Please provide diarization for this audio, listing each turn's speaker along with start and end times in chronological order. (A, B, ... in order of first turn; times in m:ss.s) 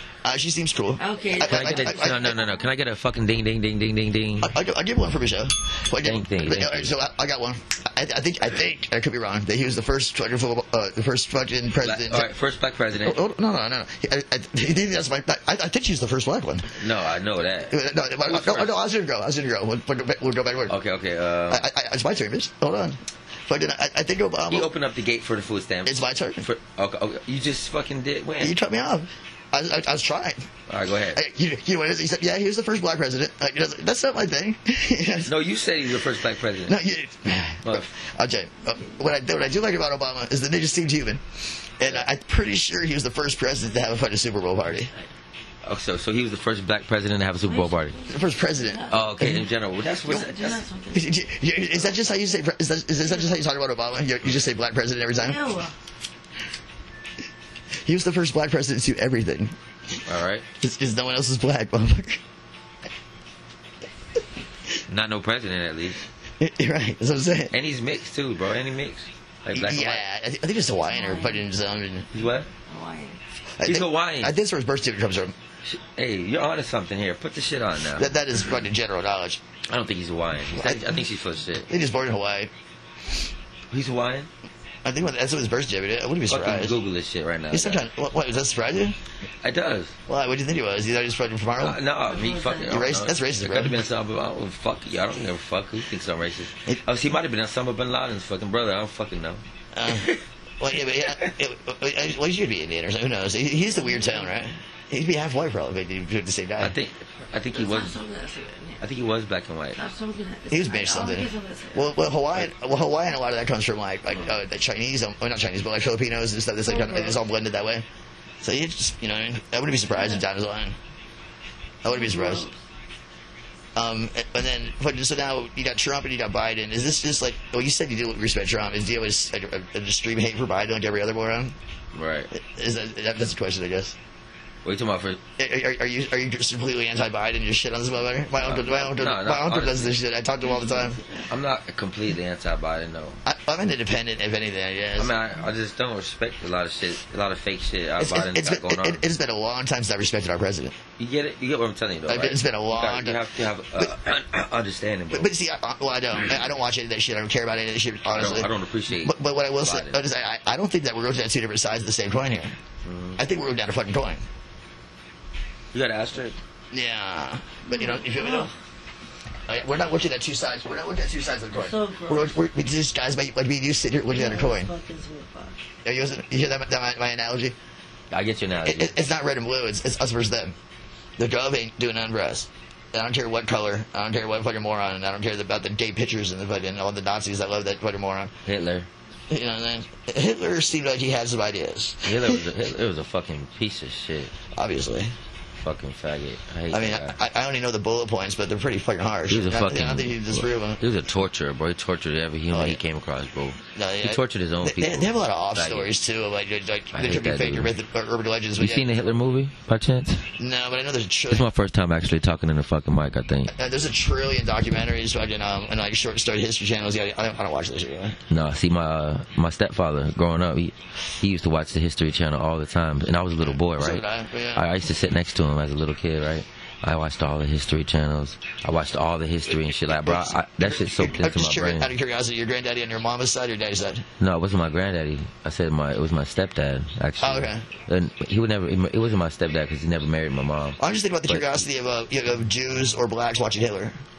0:00.2-0:02.4 A
0:01.0-0:02.7 B
0:01.4-0:04.5 C
0:04.4-0:12.3 A
0:06.0-0:06.9 C
0:11.8-0:13.2 C
0:13.0-0:16.8 A
0:16.7-0:18.7 C
0:17.7-0:20.8 A
0:20.7-0:21.7 C
0:21.5-0:24.7 A
0:24.5-0:28.6 C
0:25.8-0:26.4 A
0:28.4-0:30.5 A
0:30.7-0:31.2 C
0:31.1-0:35.3 A
0:35.2-0:36.8 C
0:36.7-0:44.9 A
0:45.6-0:48.0 C
0:47.4-0:49.2 B
0:48.1-0:49.4 A
0:48.9-0:50.6 C
0:50.0-0:51.2 B
0:50.9-0:55.4 A
0:55.2-0:55.7 B
0:57.8-0:59.5 A
1:00.0-1:00.4 C
1:00.6-1:02.2 A
1:04.9-1:06.0 C
1:06.4-1:07.5 A
1:07.5-1:10.0 C
1:09.5-1:12.1 A
1:10.8-1:11.4 B
1:12.1-1:12.5 C
1:12.7-1:13.2 B
1:13.6-1:15.3 A
1:13.6-1:14.3 C
1:15.6-1:18.1 C
1:18.0-1:19.4 A
1:19.7-1:21.7 C
1:20.5-1:21.0 A
1:21.7-1:22.5 A
1:23.7-1:24.3 C
1:24.8-1:26.8 A
1:26.3-1:27.8 C
1:27.5-1:29.0 A
1:29.4-1:29.9 C
1:30.1-1:31.8 A
1:31.6-1:40.2 C
1:32.0-1:32.7 B
1:32.7-1:33.8 A
1:39.7-1:46.7 A
1:40.9-1:41.3 C
1:43.7-1:44.3 B
1:46.6-1:48.0 C
1:47.5-1:48.8 B
1:48.8-1:49.8 C
1:49.8-1:52.0 B
1:50.5-1:57.8 A
1:56.6-1:57.2 B
1:58.4-2:00.8 A
2:00.0-2:00.2 B
2:01.8-2:02.5 A
2:01.8-2:02.6 B
2:03.8-2:11.6 A
2:11.9-2:12.3 C
2:12.3-2:14.0 A
2:14.6-2:15.2 C
2:15.4-2:21.0 A
2:18.4-2:20.0 C
2:20.4-2:21.3 B
2:21.3-2:23.2 C
2:23.2-2:25.1 A
2:25.0-2:29.0 C
2:28.0-2:30.8 A
2:31.0-2:35.3 C
2:32.1-2:33.2 A
2:35.1-2:42.6 A
2:38.1-2:40.0 C
2:42.8-2:43.2 C
2:43.2-2:44.2 A
2:45.7-2:46.4 C
2:46.7-2:48.5 A
2:47.7-2:48.5 B
2:49.5-2:54.7 A
2:51.5-2:52.4 B
2:54.1-2:55.6 B
2:55.8-2:57.6 A
2:58.1-2:58.9 C
2:58.6-3:00.5 A
3:01.2-3:08.3 A
3:08.4-3:08.9 C
3:09.3-3:12.4 A
3:12.0-3:14.3 C
3:14.5-3:15.2 A
3:15.6-3:17.2 C
3:16.7-3:20.8 A
3:19.3-3:25.9 C
3:22.5-3:22.8 A
3:23.8-3:29.1 A
3:26.9-3:27.7 C
3:28.6-3:30.3 C
3:30.4-3:31.4 A
3:31.3-3:33.5 C
3:33.5-3:38.2 A
3:38.3-3:44.0 C
3:43.6-3:44.6 A
3:44.5-3:51.9 C
3:49.5-3:54.1 A
3:54.2-4:01.6 C
3:57.2-3:57.7 A
4:00.8-4:04.0 A